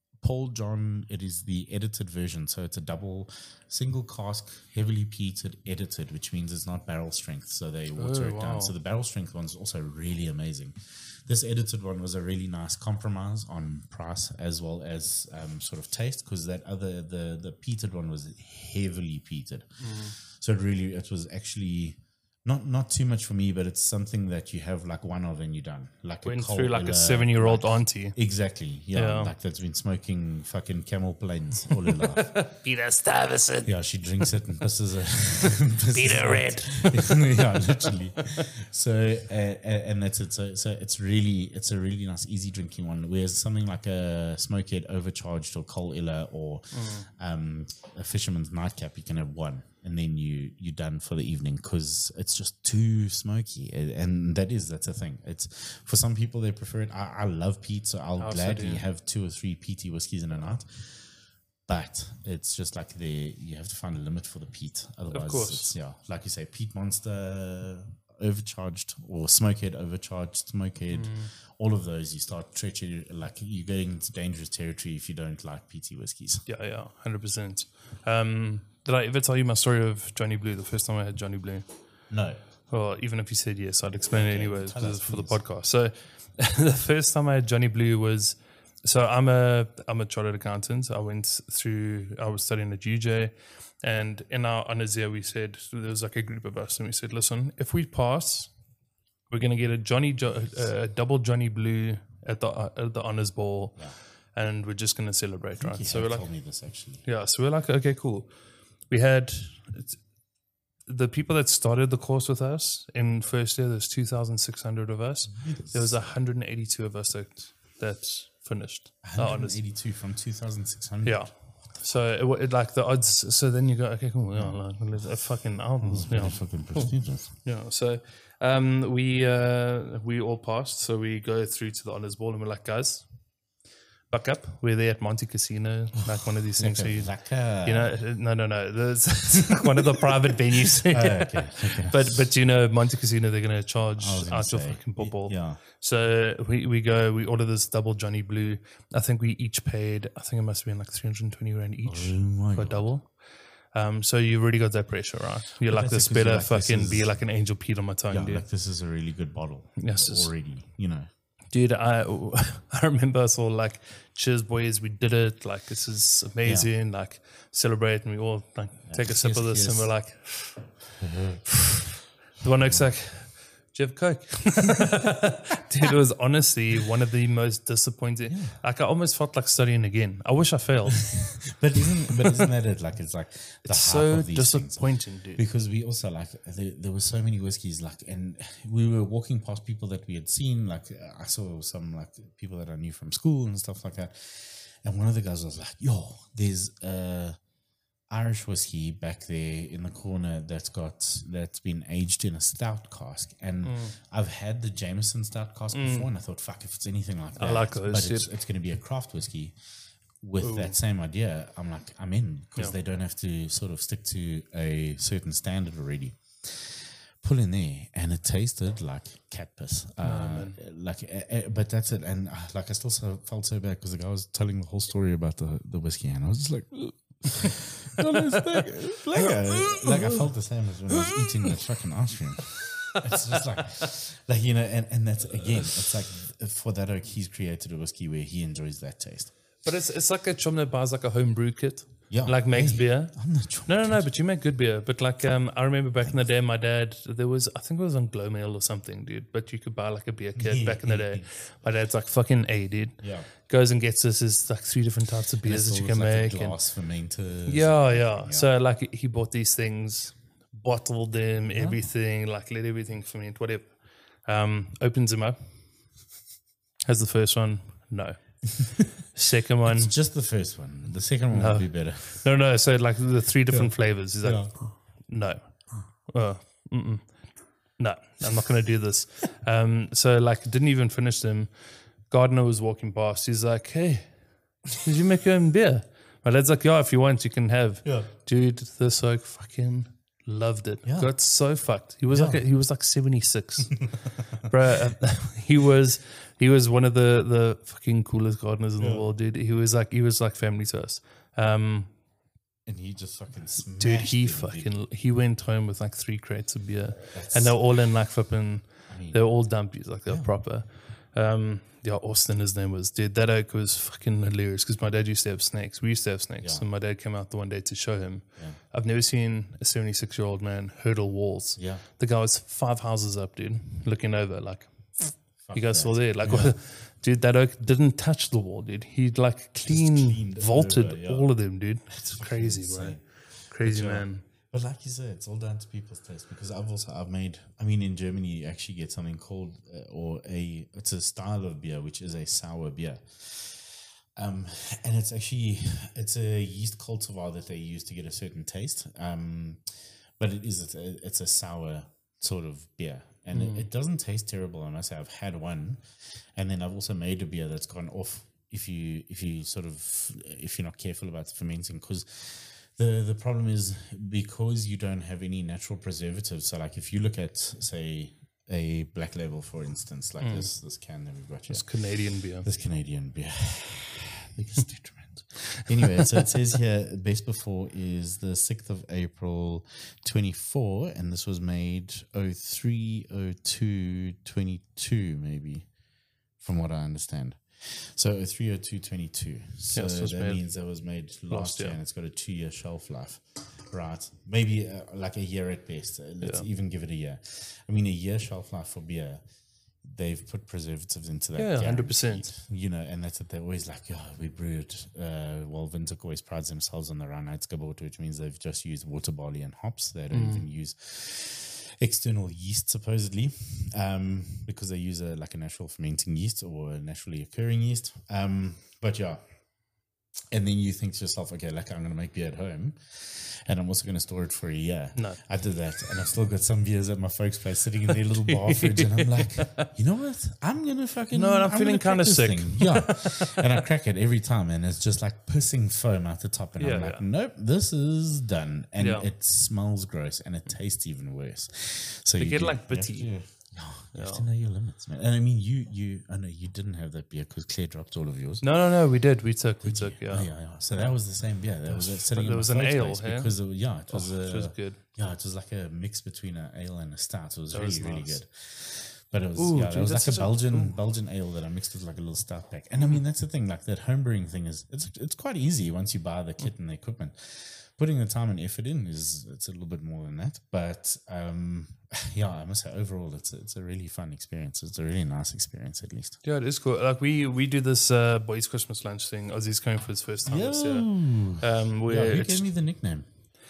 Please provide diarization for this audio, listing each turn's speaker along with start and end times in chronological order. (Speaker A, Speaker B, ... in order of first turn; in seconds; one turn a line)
Speaker A: 0.2-32.4
Speaker B: 8.0-8.7
Speaker B: 19.8-20.1
Speaker B: 26.2-28.2
Speaker B: 28.9-29.3
Speaker B: 31.9-33.7
Speaker A: 33.6-61.1
Speaker B: 35.9-37.6
Speaker B: 46.7-47.1
Speaker B: 58.2-58.8
Speaker A: 61.7-76.4
Speaker B: 65.1-65.7
Speaker B: 70.9-71.3
Speaker B: 76.5-81.7
Speaker A: 82.1-82.4
Speaker B: 82.7-98.5
Speaker A: 84.1-85.4
Speaker B: 99.3-106.3
Speaker A: 105.6-107.0
Speaker B: 107.0-108.3
Speaker B: 108.9-110.0
Speaker B: 110.9-119.6
Speaker A: 115.3-116.1
Speaker A: 119.0-121.2
Speaker B: 121.0-133.1
Speaker A: 124.3-125.0
Speaker A: 125.8-127.3
Speaker B: 134.1-153.2
Speaker A: 136.6-138.0
Speaker A: 140.7-142.3
Speaker A: 144.0-145.6
Speaker A: 151.8-152.9
Speaker B: 153.7-158.4
Speaker A: 155.7-157.2
Speaker A: 158.1-161.1
Speaker B: 159.8-160.3
Speaker B: 161.5-170.8
Speaker A: 166.4-166.7
Speaker A: 168.9-169.9
Speaker A: 171.0-171.5
Speaker B: 171.5-171.8
Speaker B: 172.4-181.4
Speaker A: 172.6-172.9
Speaker A: 178.3-178.6
Speaker A: 181.1-197.4
Speaker B: 183.6-185.4
Speaker A: 198.1-209.6
Speaker B: 203.6-203.9
Speaker B: 205.7-206.1
Speaker B: 207.4-208.3
Speaker A: 210.2-239.3
Speaker B: 210.4-210.7
Speaker B: 220.0-220.6
Speaker B: 228.0-230.2
Speaker B: 230.9-231.5
Speaker B: 232.8-233.2
Speaker B: 239.6-256.6
Speaker A: 242.1-244.1
Speaker A: 250.3-251.3
Speaker A: 253.0-253.3
Speaker A: 255.4-258.5
Speaker B: 257.5-265.4
Speaker A: 261.5-261.8
Speaker B: 266.9-268.4
Speaker B: 269.1-269.9
Speaker A: 269.6-272.3
Speaker B: 271.3-277.2
Speaker A: 273.5-274.6
Speaker B: 277.8-284.1
Speaker B: 284.6-293.9
Speaker A: 290.9-291.1
Speaker A: 292.1-292.4
Speaker A: 294.1-294.4
Speaker B: 294.4-301.9
Speaker A: 298.8-299.0
Speaker A: 302.6-304.7
Speaker B: 303.8-334.2
Speaker A: 307.1-307.6
Speaker A: 308.9-309.2
Speaker A: 321.6-321.8
Speaker A: 325.4-326.6
Speaker A: 329.6-331.3
Speaker A: 331.9-355.8
Speaker B: 353.3-353.6
Speaker A: 356.4-371.8
Speaker B: 370.2-370.5
Speaker B: 371.5-372.5
Speaker A: 372.4-385.7
Speaker A: 386.4-399.2
Speaker B: 389.7-390.4
Speaker B: 391.3-391.8
Speaker A: 399.8-419.2
Speaker B: 401.4-402.3
Speaker B: 410.1-410.4
Speaker A: 420.3-448.4
Speaker B: 424.9-425.2
Speaker B: 428.3-429.7
Speaker B: 431.1-433.4
Speaker B: 436.6-437.0
Speaker B: 438.8-439.1
Speaker B: 442.2-443.1
Speaker B: 443.9-444.2
Speaker B: 448.4-450.9
Speaker A: 449.6-476.2
Speaker B: 451.7-453.3
Speaker B: 453.9-454.8
Speaker B: 457.5-458.2
Speaker B: 459.4-460.7
Speaker B: 476.2-482.5
Speaker A: 480.2-483.1